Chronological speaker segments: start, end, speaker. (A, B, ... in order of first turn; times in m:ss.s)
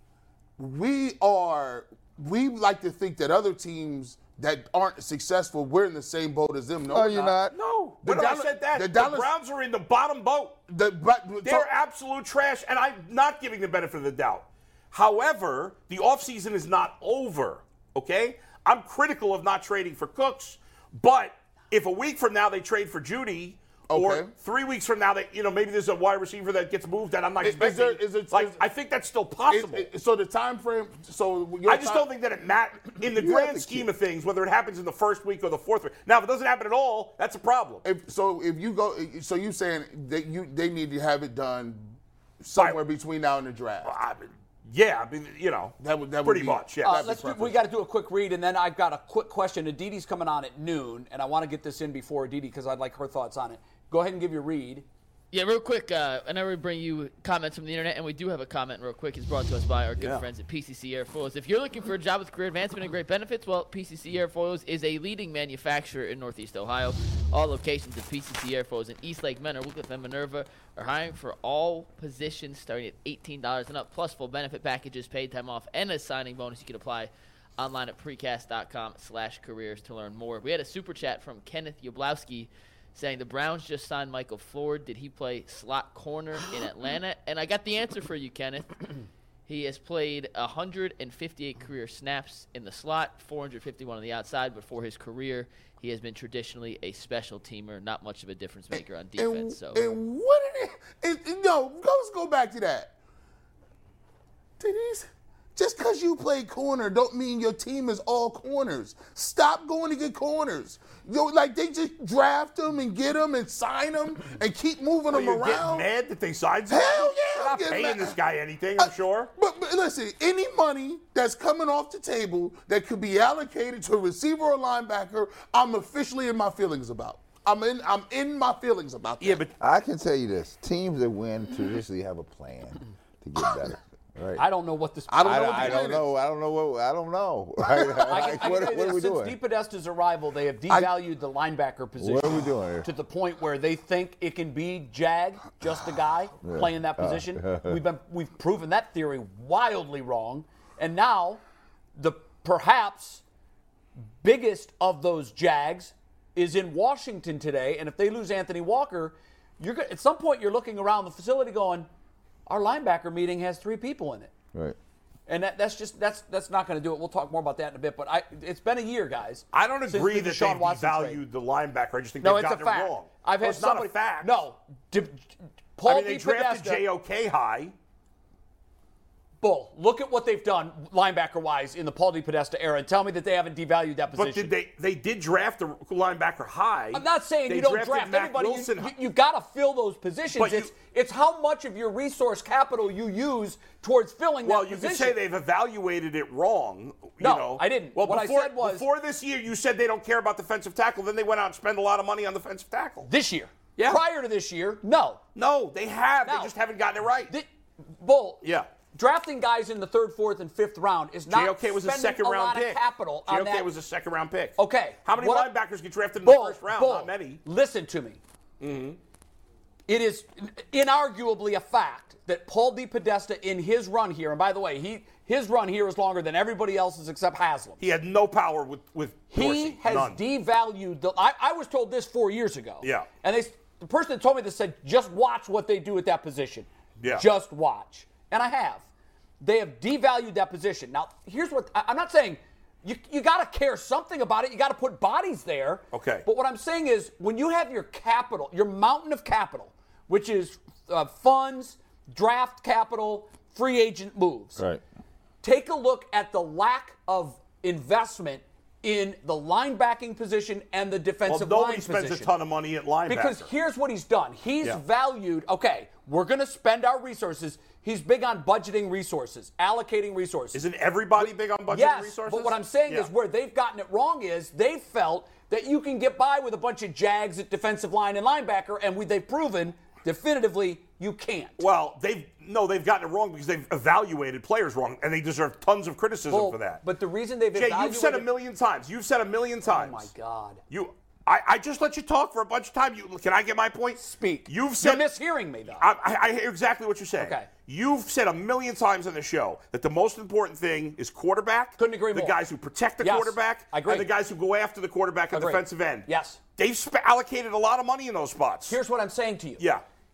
0:00.6-0:07.4 A
0:06.9-0:07.5 B
0:07.5-0:10.6 C
0:08.0-0:09.3 A
0:10.7-0:11.7 A
0:11.4-0:29.9 C
0:23.9-0:24.3 A
0:27.4-0:28.6 A
0:29.5-0:32.1 A
0:31.7-0:37.8 C
0:33.1-0:33.9 B
0:37.8-0:43.9 A
0:43.8-0:47.1 C
0:45.8-0:47.6 A
0:46.8-0:54.9 D
0:55.3-1:28.8 E
1:00.0-1:00.2 C
1:29.5-1:39.9 E
1:38.7-1:43.0 A
1:44.6-1:55.9 A
1:55.1-1:59.3 C
1:56.7-1:58.2 A
1:58.8-2:09.5 A
2:09.2-2:09.5 C
2:09.6-2:14.4 B
2:14.4-2:15.9 D
2:15.1-2:16.1 A
2:15.2-2:19.4 B
2:17.6-2:18.6 A
2:18.1-2:31.4 D
2:20.7-2:21.0 A
2:22.0-2:22.9 B
2:26.4-2:27.8 B
2:32.0-2:33.2 D
2:34.2-2:41.9 D
2:42.5-2:44.3 D
2:45.3-2:51.2 D
2:49.5-2:54.4 C
2:52.2-2:56.8 D
2:55.8-2:57.8 C
2:59.4-3:04.5 D
3:04.2-3:09.0 C
3:06.9-3:15.2 D
3:10.4-3:10.7 C
3:14.4-3:23.1 C
3:17.2-3:18.8 D
3:23.0-3:25.2 D
3:25.4-3:27.3 C
3:26.2-3:26.5 D
3:28.0-3:33.7 D
3:28.4-3:28.7 C
3:31.3-3:37.4 C
3:34.6-3:35.5 D
3:36.2-3:38.2 D
3:38.6-3:39.0 C
3:39.9-3:47.8 D
3:47.8-3:50.2 C
3:49.3-3:58.9 D
3:52.8-3:53.1 C
3:57.0-3:57.3 C
3:59.4-4:14.6 D
4:05.9-4:06.2 C
4:14.6-4:14.8 B
4:15.4-4:22.3 D
4:21.3-4:23.5 C
4:23.1-4:30.6 D
4:30.5-4:33.1 C
4:31.2-4:41.6 D
4:41.6-4:46.8 C
4:46.3-4:48.3 D
4:47.5-4:50.1 C
4:49.6-4:50.6 D
4:50.7-4:55.0 C
4:54.0-4:55.9 D
4:55.8-5:08.8 C
4:57.2-4:57.5 D
5:01.8-5:02.4 D
5:03.0-5:04.1 D
5:05.3-5:06.4 D
5:08.7-5:09.6 D
5:09.6-5:09.8 C